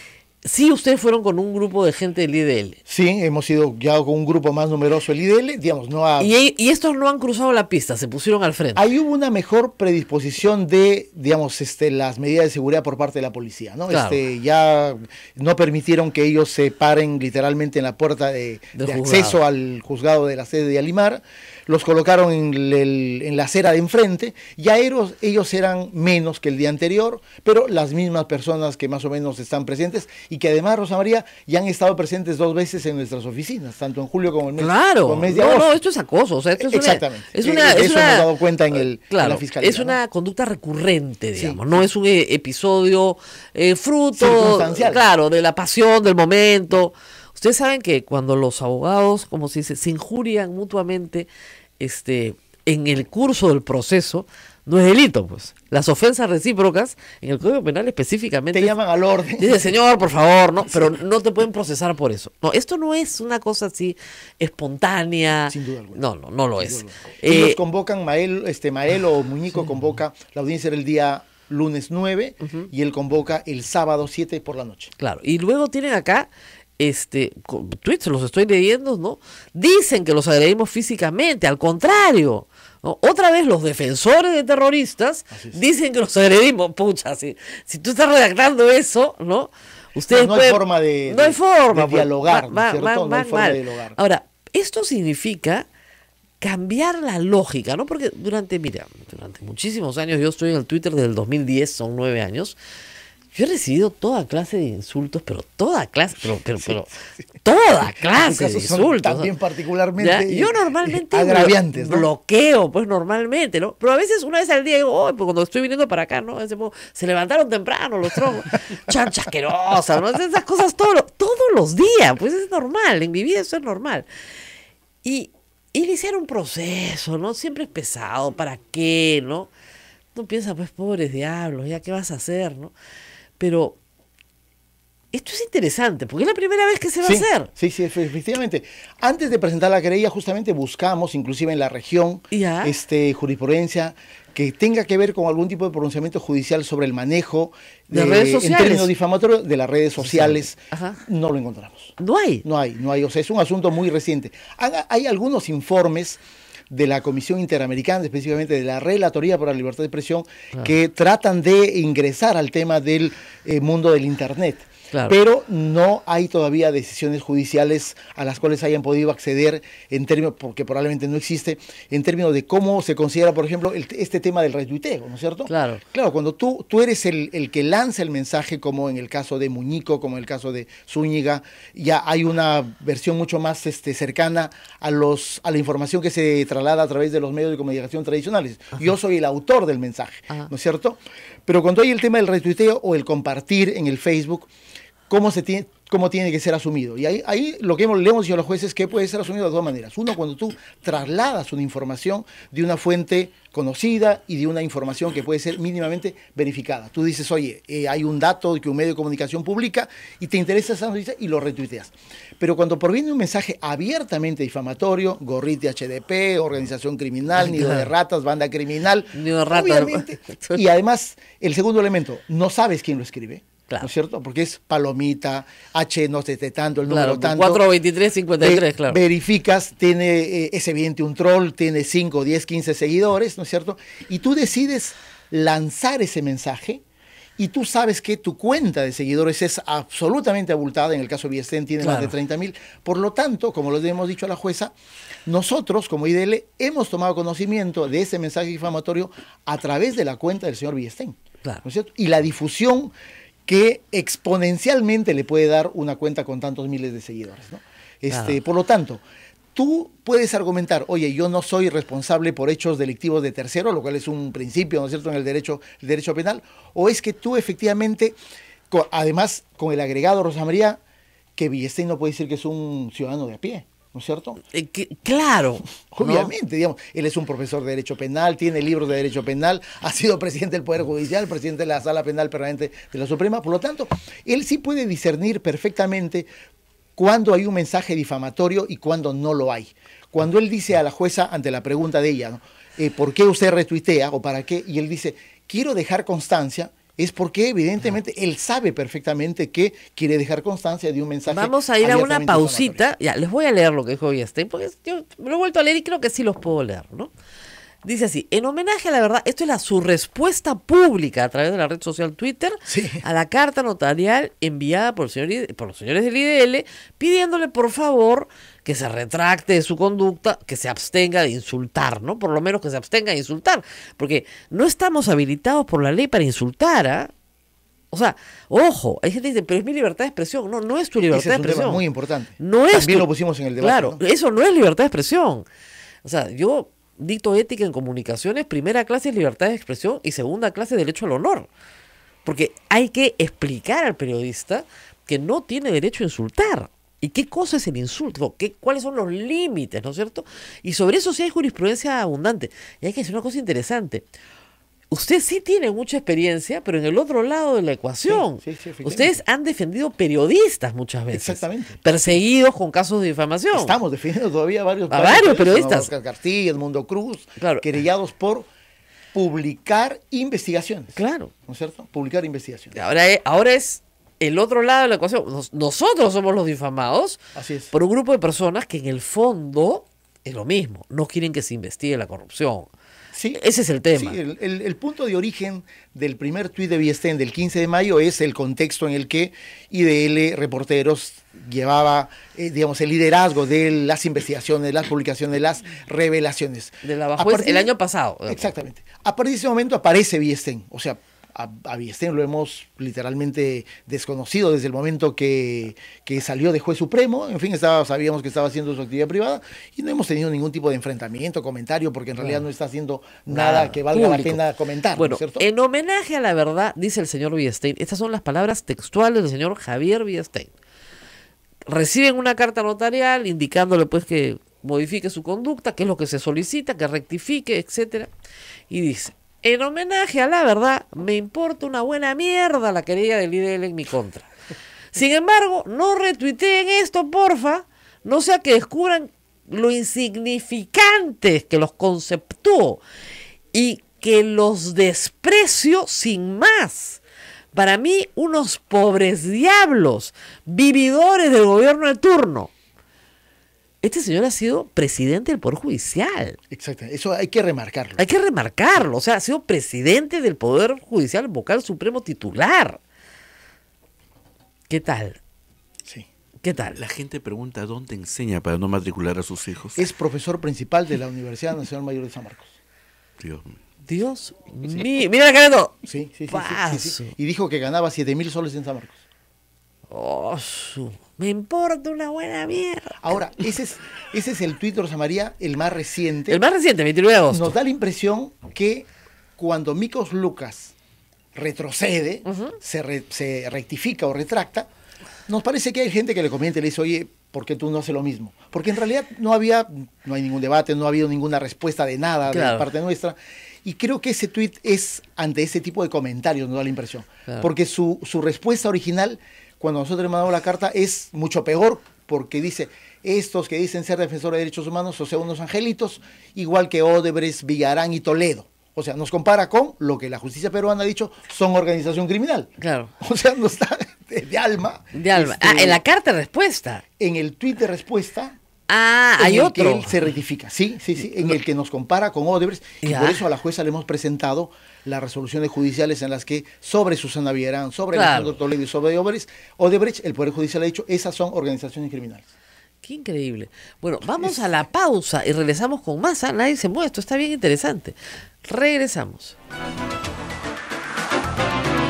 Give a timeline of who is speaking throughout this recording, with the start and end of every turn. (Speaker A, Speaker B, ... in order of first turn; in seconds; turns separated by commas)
Speaker A: 0.4-2.8, Speaker B: 2.9-6.3, Speaker A: 6.2-8.8, Speaker B: 8.8-35.8, Speaker A: 13.9-14.2, Speaker A: 18.8-19.4, Speaker A: 34.6-38.3, Speaker B: 36.6-40.0, Speaker A: 39.1-51.3, Speaker B: 41.4-41.8, Speaker B: 44.1-45.0, Speaker A: 51.8-58.7, Speaker B: 58.5-59.7, Speaker A: 59.4-67.6, Speaker B: 65.5-66.0, Speaker B: 66.6-74.9, Speaker A: 72.4-72.7, Speaker A: 75.0-95.7, Speaker B: 85.3-85.6, Speaker B: 90.1-94.0, Speaker A: 96.4-102.6, Speaker A: 103.3-106.9, Speaker A: 107.4-109.3, Speaker B: 108.1-112.1, Speaker A: 110.0-124.1, Speaker A: 125.0-129.5, Speaker A: 130.2-132.7, Speaker A: 133.4-133.8, Speaker A: 135.1-137.5, Speaker B: 137.0-194.5, Speaker A: 142.3-142.8, Speaker A: 147.9-148.9, Speaker A: 150.0-151.0, Speaker A: 152.0-152.4, Speaker A: 164.9-165.2, Speaker A: 175.5-175.8, Speaker B: 195.1-227.7, Speaker A: 217.4-217.9, Speaker A: 219.1-220.7, Speaker A: 226.9-229.0, Speaker B: 228.4-236.8, Speaker B: 237.4-244.7, Speaker A: 241.8-242.1, Speaker B: 245.3-252.9, Speaker B: 253.5-259.0, Speaker A: 258.1-258.4, Speaker B: 259.6-268.2, Speaker B: 268.7-270.8, Speaker B: 271.4-274.4, Speaker A: 274.4-276.3, Speaker B: 275.9-286.3, Speaker B: 287.0-302.9, Speaker A: 301.3-307.1, Speaker A: 307.8-327.1, Speaker B: 312.7-313.0, Speaker A: 327.9-331.8, Speaker B: 331.1-334.0, Speaker A: 332.4-335.4, Speaker A: 336.0-341.5, Speaker A: 342.2-354.1, Speaker A: 354.9-363.8, Speaker B: 358.1-359.2, Speaker B: 361.1-361.8, Speaker B: 363.5-368.5, Speaker A: 364.9-365.9, Speaker A: 367.4-367.7, Speaker B: 369.1-370.9, Speaker A: 370.9-371.3, Speaker B: 371.5-372.8, Speaker A: 372.7-377.2, Speaker B: 377.4-377.7, Speaker A: 377.7-382.7, Speaker B: 383.1-383.4, Speaker A: 383.3-384.2, Speaker B: 383.9-397.7, Speaker A: 396.8-398.5, Speaker B: 398.3-415.5, Speaker A: 413.3-414.4, Speaker A: 414.9-420.5, Speaker A: 421.7-428.1, Speaker A: 428.7-434.3, Speaker A: 434.9-442.8, Speaker A: 443.5-447.0, Speaker A: 447.5-452.5, Speaker A: 453.8-456.4, Speaker B: 456.5-458.1, Speaker A: 458.0-462.8, Speaker A: 464.7-465.2, Speaker A: 466.4-466.8, Speaker C: 466.8-469.9, Speaker B: 469.8-472.6, Speaker C: 473.2-473.6, Speaker A: 473.9-475.8, Speaker B: 475.8-479.0, Speaker A: 476.3-477.1, Speaker A: 479.9-483.1, Speaker B: 483.0-486.4, Speaker A: 486.3-487.6, Speaker B: 487.3-490.7, Speaker B: 491.4-494.7, Speaker A: 492.2-492.6, Speaker B: 495.3-525.8, Speaker A: 502.3-502.7, Speaker A: 522.6-522.9, Speaker A: 524.9-526.8, Speaker B: 527.0-528.4, Speaker A: 528.7-530.0, Speaker B: 529.2-542.3, Speaker A: 532.8-533.2, Speaker A: 537.9-538.4, Speaker A: 542.8-549.4